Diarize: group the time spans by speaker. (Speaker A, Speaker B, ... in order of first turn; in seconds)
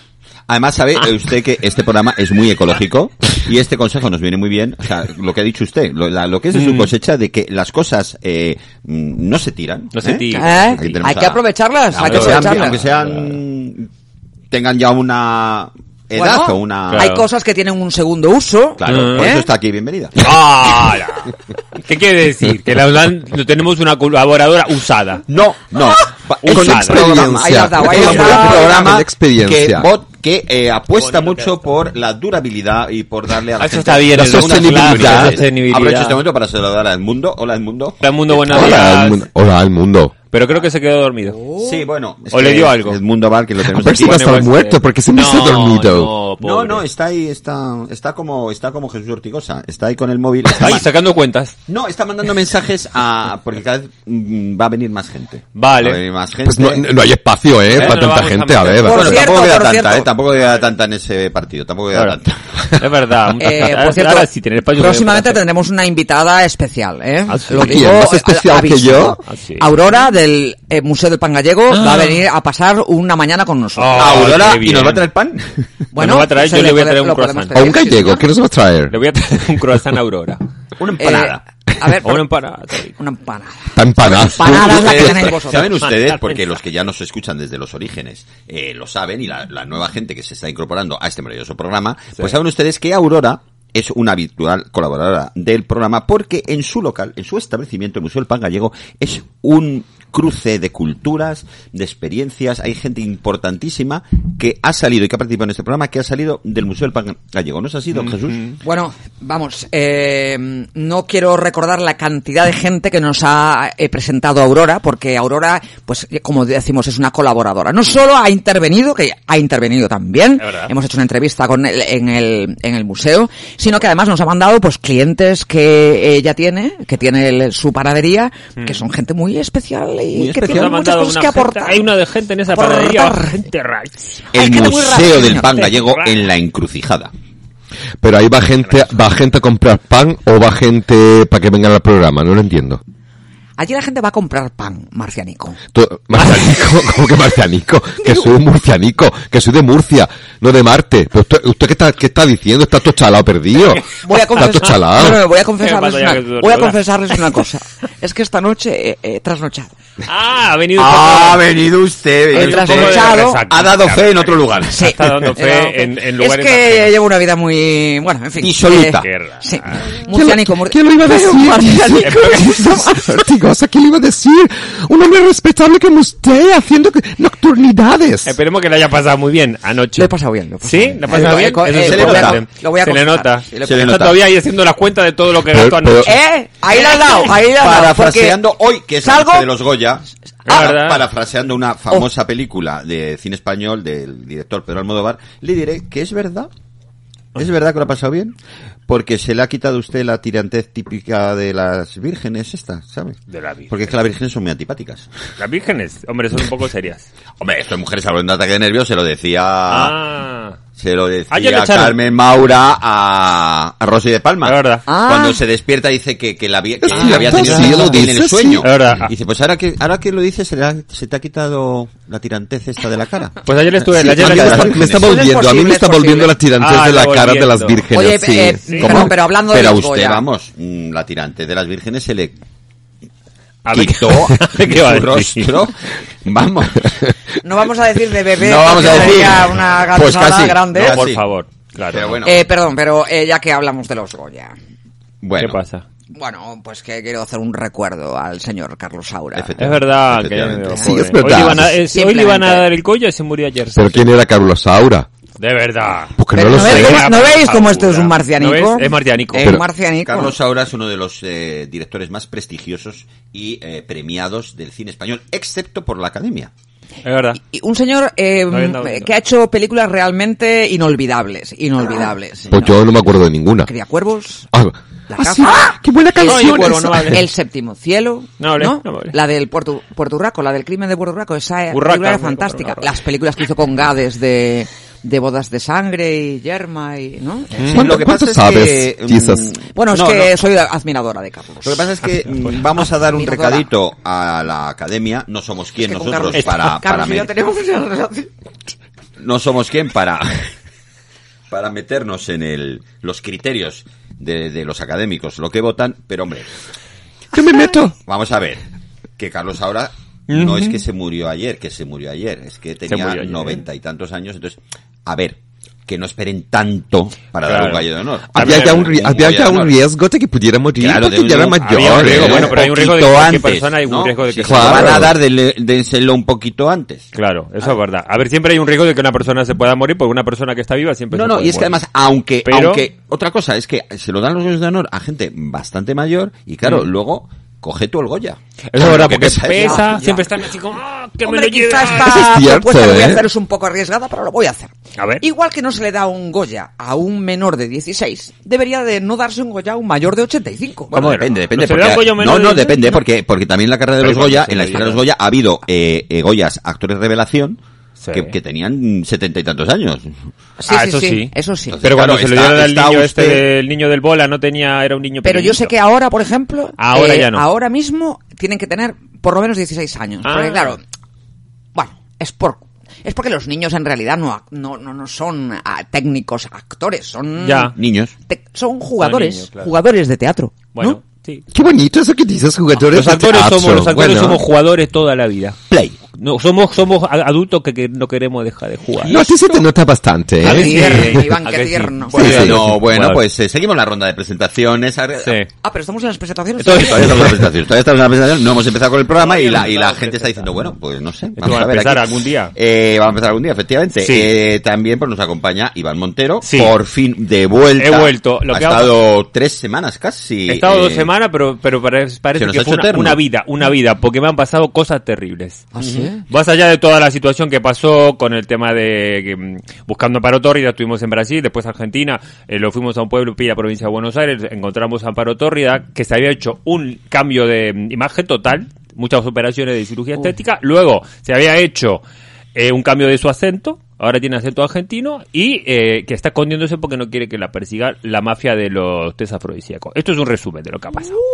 Speaker A: 0.5-13.9, 14.5-17.1, 18.8-20.5, 25.3-38.8, 41.6-44.5, 46.4-50.9, 51.7-56.8, 57.7-58.0, 58.8-62.4, 74.0-75.7, 80.8-81.4, 84.0-108.5, 130.1-130.8, 134.3-137.1, 160.8-165.2, 168.4-169.1, 181.1-182.4, 183.6-184.2, 186.9-196.5, 197.3-198.3, 198.9-203.2, 203.7-205.1, 207.4-210.0, 210.8-225.2, 228.8-232.3, 233.7-235.7, 236.2-236.9, 238.3-241.3, 241.9-242.5, 245.2-245.6, 249.3-250.9, 260.0-266.5, 287.6-290.3, 291.6-297.3, 299.2-300.5, 301.5-306.5, 308.0-308.6, 309.2-319.8, 320.8-327.1, 331.1-340.2, 350.9-357.6, 358.1-360.1, 361.7-363.4, 377.8-378.1, 385.7-386.0, 392.1-395.4, 396.7-411.1, 412.4-413.2, 415.8-416.1
Speaker B: 6.5-6.9, 9.9-11.1, 12.0-13.3, 16.9-17.2, 18.9-19.3, 20.2-25.2, 26.4-27.1, 28.0-28.5, 30.9-31.6, 33.6-36.2, 38.0-39.2, 40.3-41.4, 42.3-43.0, 43.9-46.8, 50.5-51.5, 55.5-56.0, 57.7-59.2, 60.4-60.7, 62.8-65.4, 67.3-67.9, 69.3-69.7, 71.7-72.2, 73.8-75.0, 75.9-77.6, 78.9-80.4, 82.0-82.9, 85.6-86.5, 107.9-108.5, 120.4-120.7, 130.4-134.2, 135.7-136.2, 146.2-146.5, 155.6-156.8, 160.1-161.5, 162.3-166.9, 169.0-170.0, 172.0-172.4, 178.2-186.2, 190.4-191.1, 203.3-203.9, 205.4-207.1, 209.7-210.6, 211.3-211.9, 214.4-214.8, 216.9-218.1, 218.6-219.1, 223.4-224.8, 226.6-227.8, 228.7-229.0, 233.6-235.5, 238.8-239.2, 240.8-242.2, 245.4-245.8, 249.6-254.1, 255.4-259.5, 267.0-267.4, 268.5-269.1, 276.2-277.2, 278.4-279.1, 281.7-282.9, 287.6-287.9, 296.3-296.7, 310.3-310.8, 312.9-313.6, 317.4-319.0, 321.6-325.1, 327.1-331.8, 332.4-332.8, 336.6-336.9, 338.7-342.2, 345.0-345.2, 350.9-353.0, 354.0-355.0, 358.0-358.3, 360.7-365.7, 366.8-367.4, 370.2-370.8, 377.4-377.7, 379.0-379.7, 380.7-381.4, 382.9-385.6, 386.2-389.2, 390.4-393.2, 395.2-395.5, 396.6-397.4, 399.1-400.5, 401.4-402.5, 404.0-404.3, 406.4-406.7, 407.8-408.9, 410.5-415.7, 416.3-432.0, 432.5-441.2
Speaker C: 10.3-12.8, 16.1-19.5, 27.1-28.8, 41.3-41.8, 58.8-60.1, 63.4-74.3, 75.9-78.2, 81.0-82.2, 83.0-85.8, 108.6-131.8, 132.5-133.4, 134.3-135.8, 143.6-145.6, 154.0-159.7, 162.3-163.4, 164.7-173.1, 179.9-183.8, 186.0-188.4, 189.0-189.5, 214.9-215.4, 224.8-226.4, 227.9-230.2, 237.4-241.0, 242.2-244.5, 246.1-249.5, 250.7-252.7, 256.3-260.4, 267.4-272.8, 273.6-274.4, 275.1-287.5, 289.7-291.9, 293.1-293.7, 295.8-298.3, 339.5-340.2, 341.2-350.9, 360.6-361.8, 365.2-370.8, 371.7-377.7, 378.3-381.0, 390.4-392.4, 395.6-397.3, 415.7-416.2
Speaker D: 26.5-29.9, 34.1-35.4, 38.5-40.1, 43.7-46.1, 56.4-59.2, 67.5-69.2, 77.5-78.9, 83.7-85.3, 138.0-142.8, 145.7-155.2, 170.1-178.3, 185.5-186.1, 216.8-218.7, 224.1-228.8, 250.8-251.8, 253.7-255.1, 256.1-257.1, 272.5-273.7, 274.5-277.1, 287.7-289.5, 307.3-307.9, 318.3-322.6, 324.4-325.1, 341.9-343.2, 381.5-384.4, 389.1-391.2, 392.1-392.6